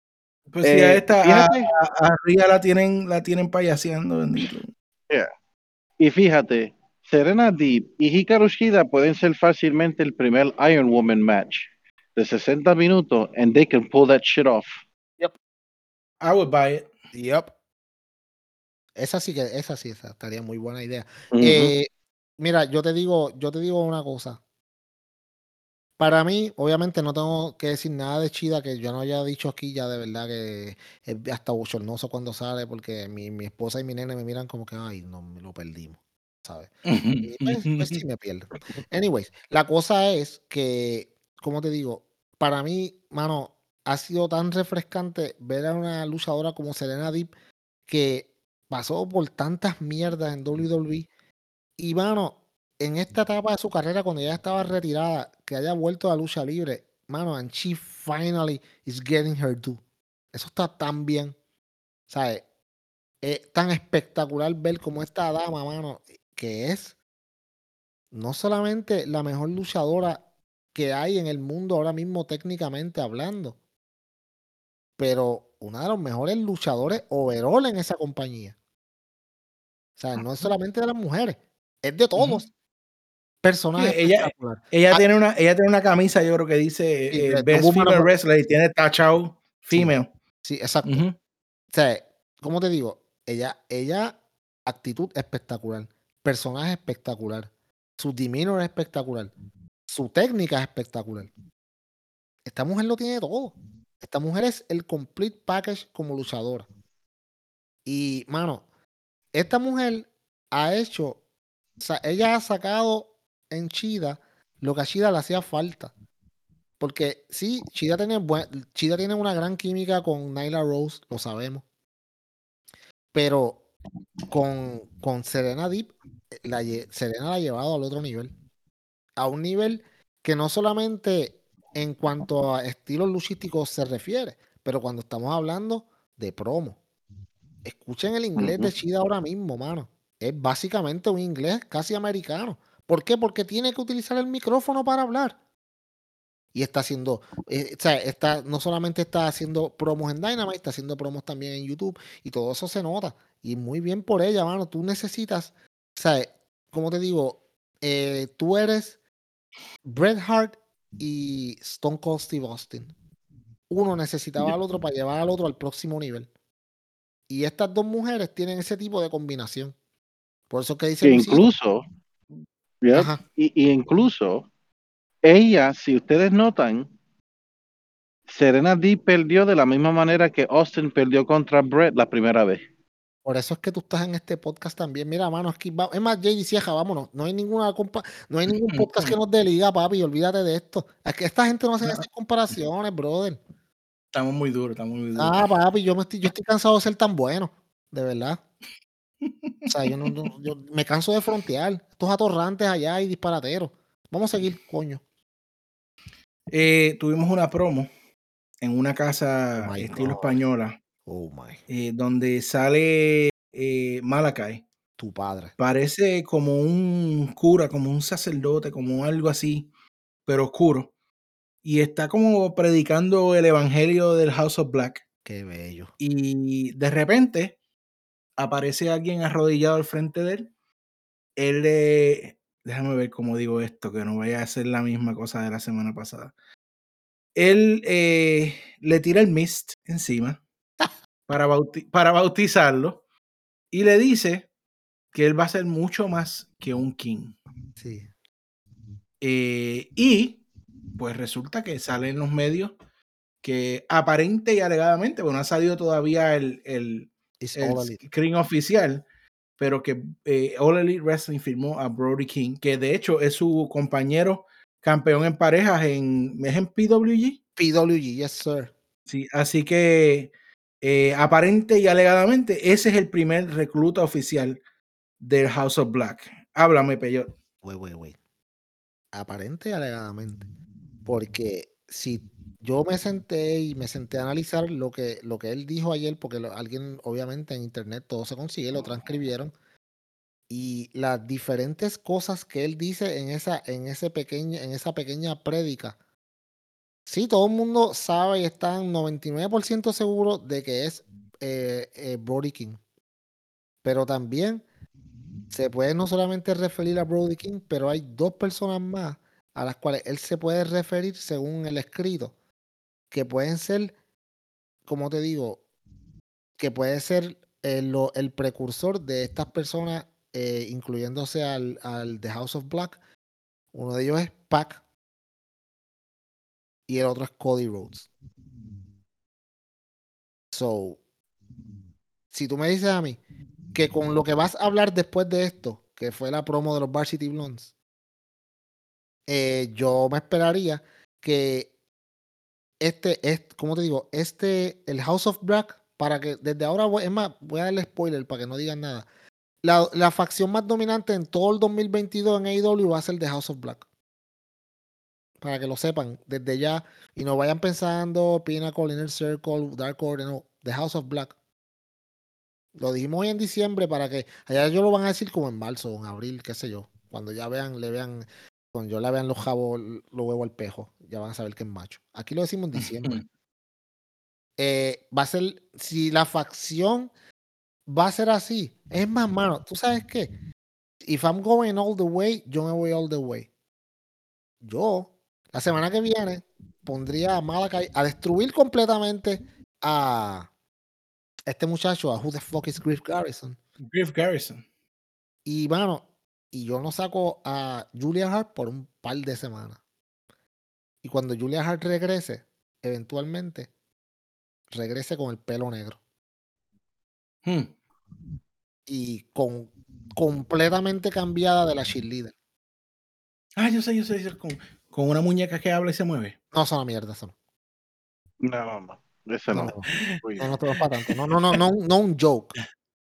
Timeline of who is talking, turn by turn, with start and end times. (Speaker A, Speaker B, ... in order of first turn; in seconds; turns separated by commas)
Speaker A: 0.5-4.7, Speaker B: 0.6-1.7, Speaker B: 6.0-14.7, Speaker A: 16.2-16.9, Speaker C: 17.1-17.5, Speaker C: 18.9-24.4, Speaker B: 21.3-21.7, Speaker C: 26.0-36.7, Speaker A: 36.9-38.0, Speaker C: 37.2-47.3, Speaker C: 47.9-51.1, Speaker C: 51.8-59.8, Speaker C: 60.3-61.3, Speaker C: 62.1-62.4, Speaker C: 63.2-66.9, Speaker C: 68.1-70.2, Speaker C: 70.7-73.6, Speaker C: 75.0-78.5, Speaker C: 80.0-82.5, Speaker C: 83.4-85.0, Speaker A: 83.8-90.1, Speaker C: 87.1-88.1, Speaker C: 89.7-91.0, Speaker A: 90.8-91.1, Speaker C: 91.7-99.3, Speaker C: 99.9-101.3, Speaker C: 102.4-106.7, Speaker C: 107.8-108.6, Speaker C: 109.3-111.2, Speaker C: 111.8-115.9, Speaker C: 116.8-121.6, Speaker C: 123.1-123.6, Speaker C: 124.3-128.3, Speaker C: 129.2-136.8, Speaker C: 137.6-145.3, Speaker A: 138.4-138.7, Speaker C: 146.5-158.9, Speaker C: 159.8-162.9, Speaker C: 163.7-166.3, Speaker C: 167.3-169.7, Speaker C: 170.5-171.5, Speaker B: 171.0-171.8, Speaker B: 172.8-174.5, Speaker C: 172.9-173.2, Speaker B: 175.2-176.9, Speaker B: 178.3-182.6, Speaker C: 183.2-193.4, Speaker A: 188.5-189.1, Speaker A: 194.1-195.5, Speaker C: 195.2-198.4, Speaker A: 199.3-200.3, Speaker C: 199.7-205.0, Speaker A: 206.5-207.9, Speaker A: 208.6-210.8, Speaker C: 209.6-210.4, Speaker C: 211.1-211.6, Speaker A: 211.7-214.6, Speaker C: 215.0-215.5, Speaker A: 215.6-219.7, Speaker A: 220.3-220.9, Speaker A: 221.6-225.0, Speaker C: 225.2-225.9, Speaker A: 226.0-227.6, Speaker A: 228.4-230.5, Speaker A: 231.4-236.3, Speaker A: 237.3-240.4, Speaker A: 241.3-243.0, Speaker A: 243.7-244.5, Speaker A: 245.1-247.3, Speaker C: 247.8-248.1, Speaker A: 249.2-250.4, Speaker A: 250.9-252.7, Speaker A: 253.4-259.0, Speaker C: 257.4-258.0, Speaker A: 259.6-267.4, Speaker C: 267.6-268.7, Speaker A: 269.1-270.3, Speaker A: 270.8-274.6, Speaker A: 275.2-277.3, Speaker C: 277.6-278.2, Speaker C: 279.1-280.5, Speaker C: 281.1-289.5, Speaker C: 290.5-296.0, Speaker C: 297.1-302.8, Speaker C: 303.8-304.6, Speaker C: 305.5-312.3, Speaker C: 313.1-313.9, Speaker C: 314.9-315.6, Speaker C: 316.6-323.0, Speaker C: 323.7-324.8, Speaker C: 326.9-328.1, Speaker C: 330.5-331.0, Speaker C: 332.3-333.2, Speaker C: 333.7-337.7, Speaker C: 339.3-341.7, Speaker C: 342.8-349.1, Speaker C: 349.6-353.8, Speaker C: 355.4-361.3, Speaker C: 362.7-373.2, Speaker A: 372.8-373.2, Speaker C: 374.6-377.1, Speaker C: 377.9-380.3, Speaker C: 381.0-383.5, Speaker C: 384.6-390.5, Speaker C: 391.5-393.6, Speaker A: 393.9-394.6, Speaker C: 395.4-399.8, Speaker C: 401.0-403.7, Speaker C: 404.7-406.0, Speaker A: 407.4-407.7, Speaker C: 408.9-412.3, Speaker A: 413.6-416.3, Speaker C: 416.5-417.3, Speaker B: 418.4-420.6, Speaker C: 419.5-419.9, Speaker C: 420.4-422.5